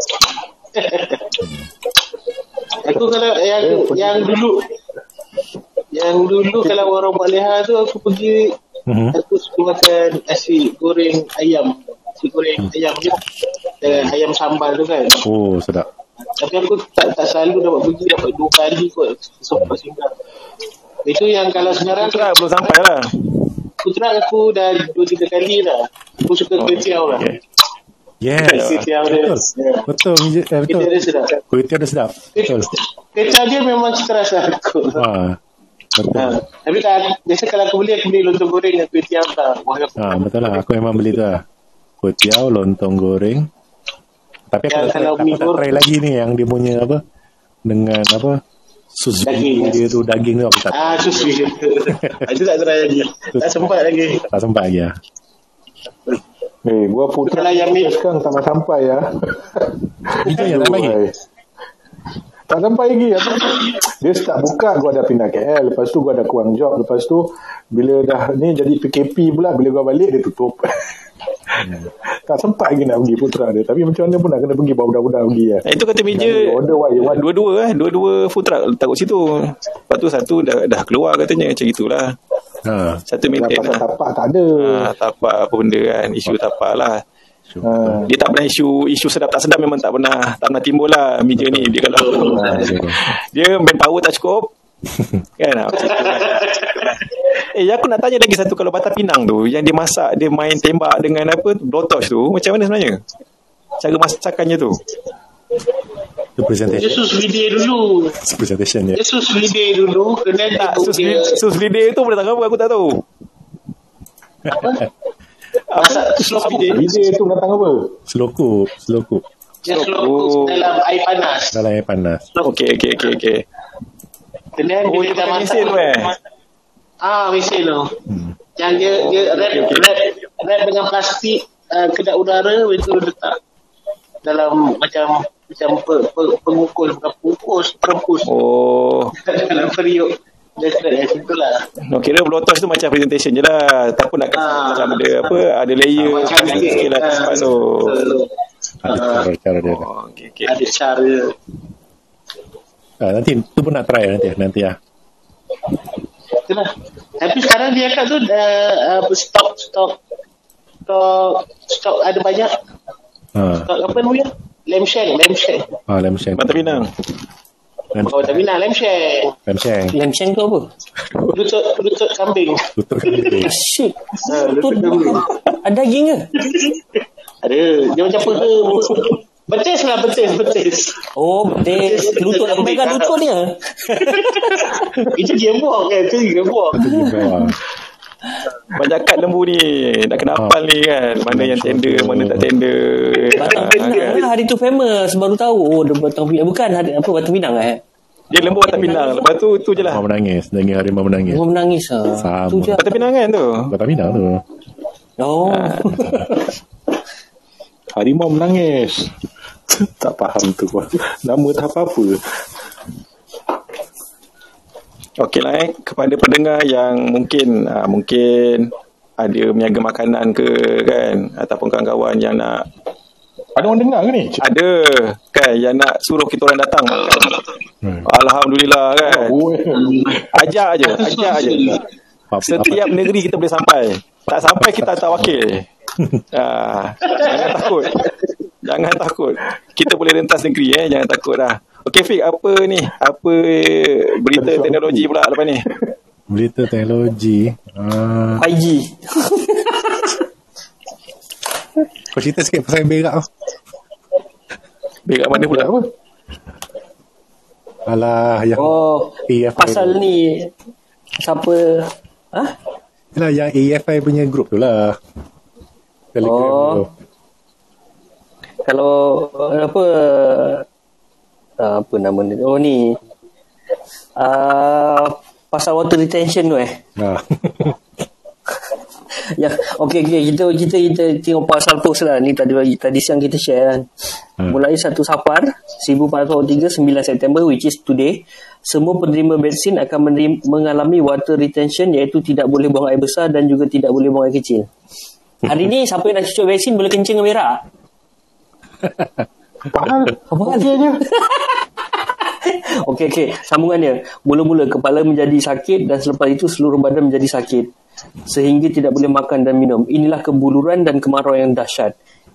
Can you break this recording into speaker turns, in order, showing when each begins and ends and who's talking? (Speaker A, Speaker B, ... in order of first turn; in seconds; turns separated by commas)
Speaker A: 0.7-1.4, Speaker B: 1.4-1.7, Speaker A: 2.8-4.7, Speaker C: 3.6-4.3, Speaker A: 5.9-8.6, Speaker B: 8.9-9.2, Speaker A: 9.1-13.2, Speaker A: 13.8-15.2, Speaker B: 15.2-15.9, Speaker A: 16.3-20.1, Speaker A: 21.0-22.4, Speaker D: 21.7-23.2, Speaker A: 23.8-27.3, Speaker D: 26.6-27.4, Speaker B: 28.2-30.9, Speaker A: 28.4-29.9, Speaker D: 28.5-28.8, Speaker A: 30.7-31.4, Speaker B: 31.5-32.7, Speaker A: 32.4-35.0, Speaker B: 35.0-35.4, Speaker B: 35.9-36.4, Speaker A: 36.1-40.6, Speaker B: 40.0-41.4, Speaker B: 42.0-43.5, Speaker B: 44.5-47.0, Speaker A: 44.7-45.7, Speaker B: 47.7-48.4, Speaker B: 49.0-51.2, Speaker A: 49.2-49.8, Speaker A: 50.7-54.3, Speaker B: 52.0-52.2, Speaker B: 53.3-54.9, Speaker C: 56.6-61.1, Speaker A: 57.3-58.0, Speaker B: 60.2-61.0, Speaker C: 62.5-70.9, Speaker C: 71.5-77.2, Speaker D: 75.7-82.1, Speaker B: 82.7-83.0, Speaker D: 83.1-83.8, Speaker C: 83.3-84.9, Speaker D: 84.6-87.0, Speaker B: 87.5-88.0, Speaker C: 87.6-88.1, Speaker D: 88.0-94.5, Speaker B: 91.3-91.7, Speaker A: 92.0-92.7, Speaker C: 92.2-92.9, Speaker B: 92.4-93.1, Speaker B: 95.0-95.2, Speaker D: 95.4-96.9, Speaker A: 95.7-96.5, Speaker D: 97.5-103.0, Speaker D: 103.8-104.8, Speaker B: 106.4-107.0, Speaker A: 106.7-108.2, Speaker B: 108.2-109.0, Speaker A: 108.9-111.4, Speaker D: 110.5-113.0, Speaker A: 114.5-114.8, Speaker D: 115.7-116.9, Speaker A: 115.7-117.0, Speaker C: 116.7-118.0, Speaker B: 118.1-119.2, Speaker A: 119.6-121.6, Speaker D: 119.7-120.7, Speaker B: 121.5-122.3, Speaker D: 122.4-123.4, Speaker A: 124.5-126.2, Speaker D: 124.8-126.1, Speaker A: 127.0-127.9, Speaker B: 128.1-128.4, Speaker A: 128.6-133.4, Speaker D: 128.8-129.9, Speaker A: 134.2-138.3, Speaker D: 138.2-139.1, Speaker A: 139.2-141.6, Speaker D: 141.9-148.0, Speaker A: 144.3-145.4, Speaker B: 145.9-146.9, Speaker A: 146.0-149.2, Speaker B: 148.8-149.9, Speaker D: 149.6-150.5, Speaker A: 150.4-151.3, Speaker B: 153.0-154.8, Speaker A: 156.4-160.0, Speaker A: 160.8-162.5, Speaker B: 163.3-163.7, Speaker A: 163.7-165.7, Speaker B: 165.9-166.9, Speaker D: 166.4-166.9, Speaker B: 167.9-168.4, Speaker A: 168.0-169.3, Speaker B: 169.5-169.9, Speaker E: 169.9-170.7, Speaker A: 171.3-173.5, Speaker B: 172.8-173.5, Speaker E: 173.4-176.3, Speaker A: 174.2-175.3, Speaker A: 176.4-176.8, Speaker A: 177.4-181.1, Speaker D: 178.3-179.1, Speaker E: 181.2-184.8, Speaker A: 181.6-183.2, Speaker A: 184.0-187.2, Speaker B: 186.7-187.6, Speaker E: 186.8-187.3, Speaker D: 188.7-194.3, Speaker B: 191.3-192.5, Speaker E: 193.3-197.8, Speaker A: 193.4-194.0, Speaker D: 198.3-200.0, Speaker B: 198.3-199.0, Speaker B: 199.8-201.4, Speaker E: 201.3-202.9, Speaker B: 202.2-203.1, Speaker D: 202.8-203.7, Speaker B: 203.7-204.4, Speaker E: 205.2-206.4, Speaker D: 205.5-206.1, Speaker C: 207.9-209.1, Speaker C: 209.7-212.4, Speaker D: 215.2-222.7, Speaker C: 223.6-224.4, Speaker D: 224.4-229.4, Speaker C: 229.0-230.5, Speaker A: 229.7-230.2, Speaker D: 230.3-231.8, Speaker A: 230.8-231.8, Speaker B: 232.3-233.1, Speaker D: 232.4-235.7, Speaker B: 234.6-234.9, Speaker B: 236.0-236.2, Speaker D: 236.3-245.7, Speaker C: 244.3-245.1, Speaker B: 246.3-248.4, Speaker E: 248.4-250.2, Speaker B: 252.1-253.3, Speaker D: 255.1-255.7, Speaker C: 255.3-255.9, Speaker B: 257.9-260.0, Speaker E: 258.6-260.5, Speaker E: 261.2-262.5, Speaker B: 263.1-265.0, Speaker B: 266.1-266.9, Speaker E: 266.2-266.9, Speaker E: 268.6-270.6, Speaker E: 271.6-273.0, Speaker E: 274.1-276.8, Speaker B: 277.0-277.8, Speaker E: 279.3-283.9, Speaker E: 284.5-294.7, Speaker E: 295.4-297.6, Speaker C: 299.6-301.0, Speaker E: 300.3-301.6, Speaker E: 302.2-307.7, Speaker E: 308.3-311.9